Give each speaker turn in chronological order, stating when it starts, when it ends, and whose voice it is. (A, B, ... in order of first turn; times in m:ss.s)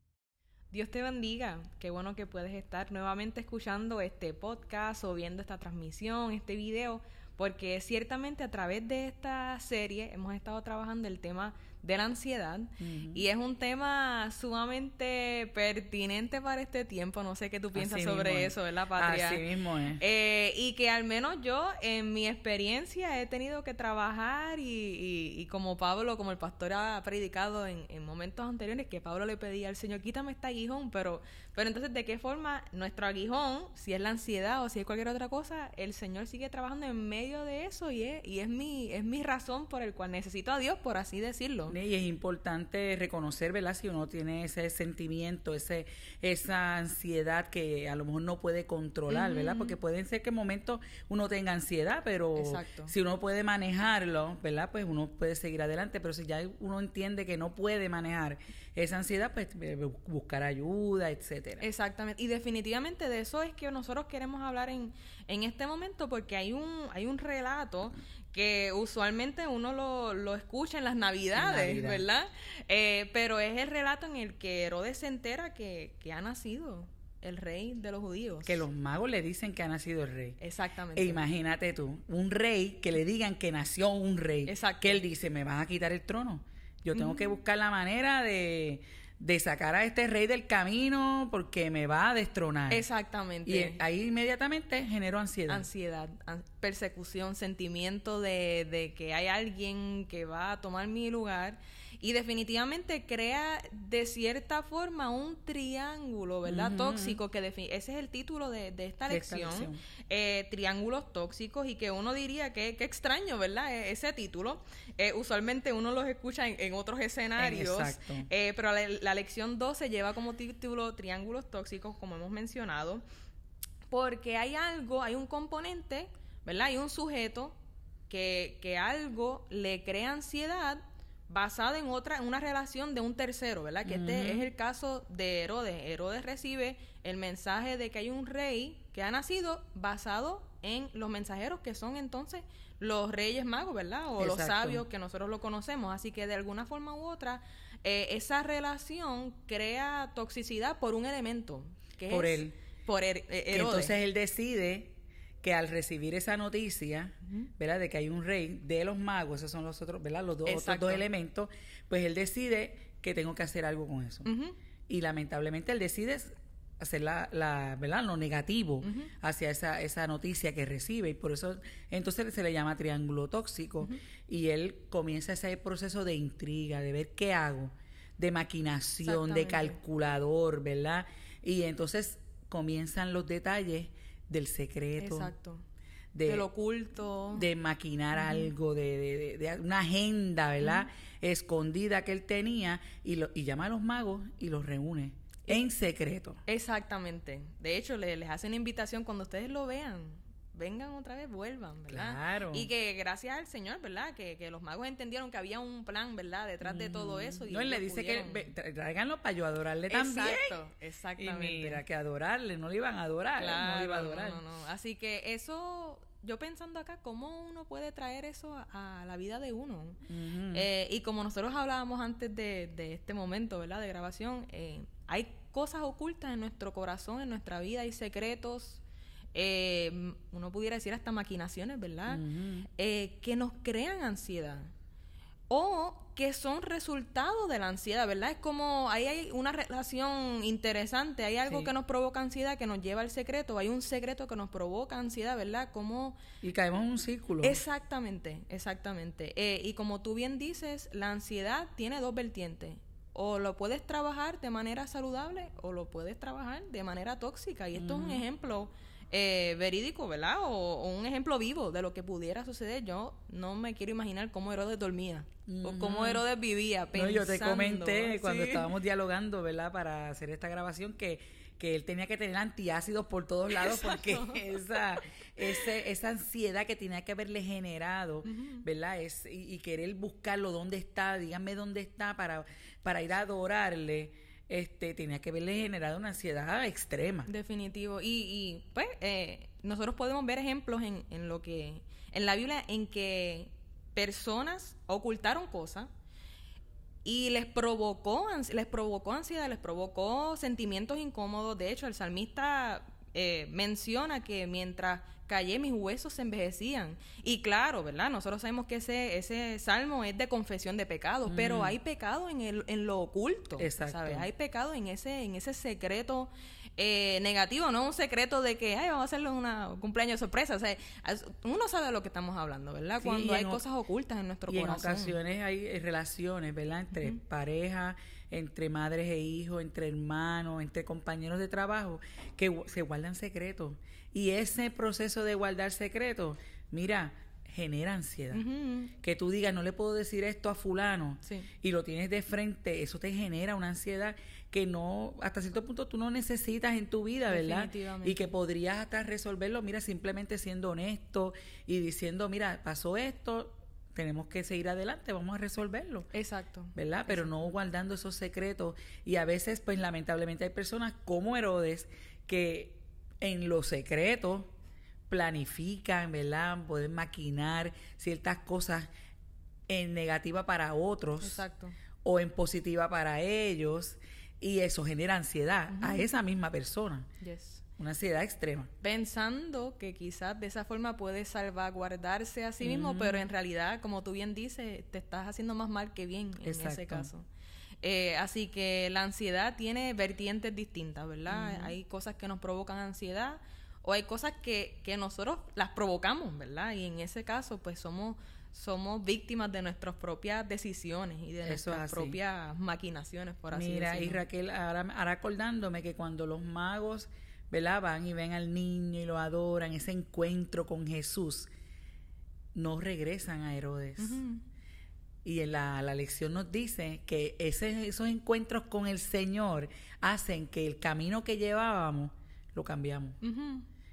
0:00.7-0:41.8 A
0:12.8-0:13.2 B
0:17.7-0:20.0 B
0:41.7-1:01.7 B
0:49.1-0:49.8 A
0:52.4-0:53.0 A
1:01.6-1:18.7 A
1:11.3-1:12.1 B
1:18.4-1:20.4 B
1:20.4-1:21.3 A
1:21.0-1:32.8 B
1:24.4-1:25.0 A
1:26.9-1:27.4 A
1:32.7-1:33.8 A
1:33.4-1:35.7 B
1:35.5-2:03.0 A
1:46.4-1:47.2 B
1:49.1-1:49.8 B
1:57.4-1:58.3 B
2:03.9-2:07.6 A
2:08.1-2:34.0 A
2:13.8-2:14.5 B
2:24.2-2:24.8 B
2:32.1-2:32.6 B
2:33.5-2:44.3 B
2:40.4-2:41.0 A
2:44.2-2:44.6 A
2:44.9-3:05.3 B
2:48.8-2:49.1 A
2:59.0-2:59.8 A
3:05.0-3:05.6 A
3:06.1-3:06.5 B
3:06.2-3:07.5 A
3:07.3-3:16.4 B
3:08.1-3:08.5 A
3:10.6-3:10.9 A
3:16.5-3:28.5 A
3:21.9-3:22.7 B
3:26.6-3:30.6 B
3:29.9-3:31.8 A
3:31.2-3:34.4 B
3:33.4-3:40.0 A
3:40.1-3:40.7 B
3:40.5-3:48.8 A
3:49.3-3:54.7 A
3:52.1-3:52.7 B
3:55.5-4:06.2 A
4:01.5-4:01.7 B
4:06.4-4:07.6 B
4:07.4-4:28.7 A
4:17.7-4:18.2 B
4:25.5-4:26.2 B
4:26.9-4:47.3 B
4:33.5-4:35.8 A
4:38.2-4:38.6 A
4:47.2-4:55.9 A
4:57.0-5:25.2 A
5:11.2-5:11.8 B
5:13.6-5:14.3 B
5:23.0-5:23.6 B
5:24.5-5:38.4 B
5:38.3-5:38.9 A
5:39.0-5:56.1 B
5:41.2-5:41.5 A
5:47.3-5:48.2 A
5:56.1-5:57.5 A
5:56.8-6:04.5 B
6:05.1-6:08.9 B
6:09.7-6:11.4 B
6:11.2-6:11.8 A
6:12.0-6:17.1 B
6:15.7-6:16.1 A
6:17.2-6:17.6 A
6:17.8-6:18.7 B
6:18.8-6:27.3 A
6:22.6-6:23.3 B
6:26.4-6:27.1 B
6:27.8-6:44.2 A
6:31.3-6:31.8 B
6:41.4-6:42.2 B
6:43.5-6:51.5 B
6:52.5-6:54.2 B
6:54.0-6:54.4 A
6:55.2-7:03.2 B
7:03.2-7:03.7 A